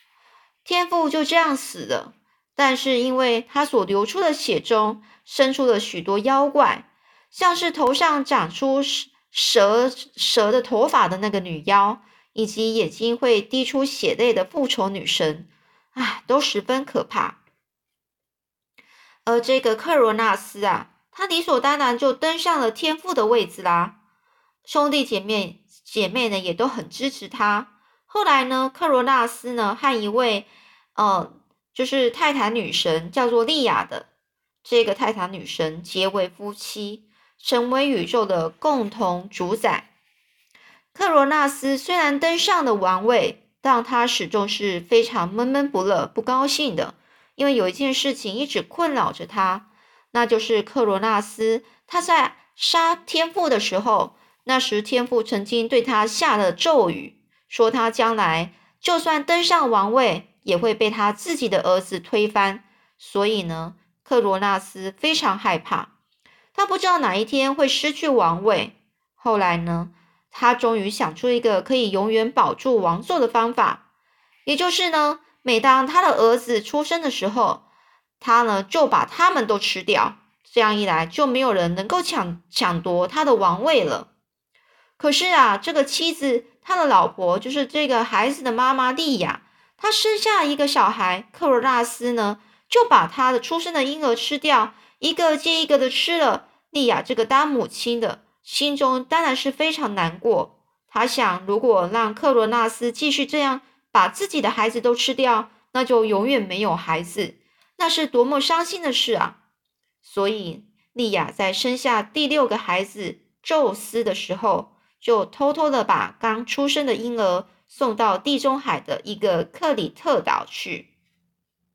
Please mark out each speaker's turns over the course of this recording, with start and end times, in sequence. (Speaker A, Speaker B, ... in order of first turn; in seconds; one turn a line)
Speaker A: 0.6-17.4
Speaker A: 19.2-23.9
Speaker A: 24.6-34.1
Speaker A: 34.6-39.9
Speaker A: 40.9-65.9
Speaker A: 66.5-73.8
Speaker A: 74.4-77.6
Speaker A: 78.2-84.1
Speaker A: 85.0-109.4
Speaker A: 110.0-120.9